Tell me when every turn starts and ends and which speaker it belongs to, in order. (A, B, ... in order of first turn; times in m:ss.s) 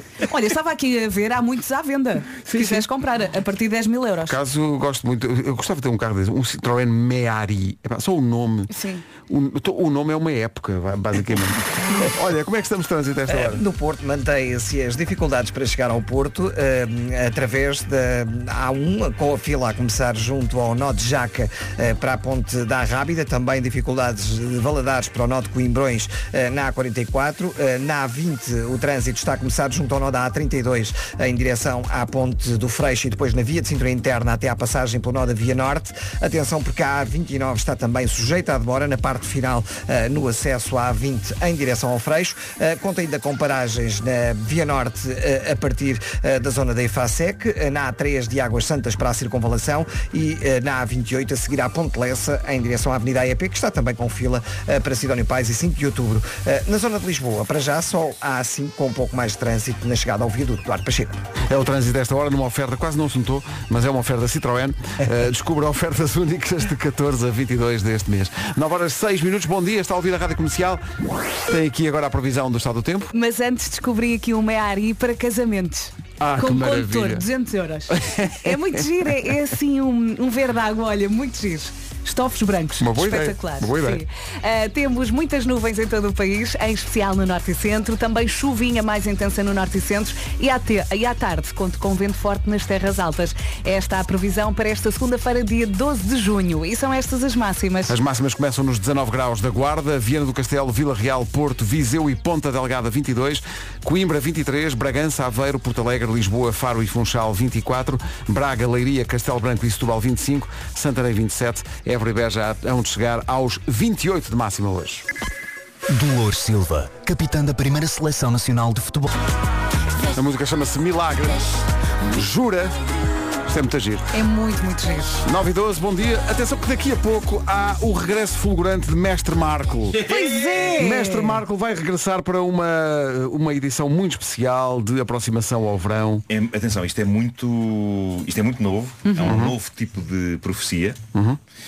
0:00.2-0:04.4 A
0:02.4-0:02.9 B
0:04.3-0:08.7 B
0:08.7-0:09.0 A
0:09.3-0:13.6 B
0:13.3-1:01.2 C
1:01.5-1:10.8 B
1:11.4-1:13.1 B
1:13.1-1:38.0 A
1:16.2-1:17.3 B
1:17.9-1:19.3 B
1:22.8-1:24.0 B
1:37.9-1:55.0 B
1:55.9-1:59.1 D
2:00.1-2:02.8 B
2:03.3-2:04.1 B
2:04.1-2:05.2 A
2:05.2-2:10.0 B
2:10.0-2:10.7 E
2:10.0-2:11.4 A
2:10.8-2:16.2 B
2:16.3-2:21.0 E
2:19.0-2:19.4 A
2:19.2-2:19.6 B
2:21.1-2:21.4 B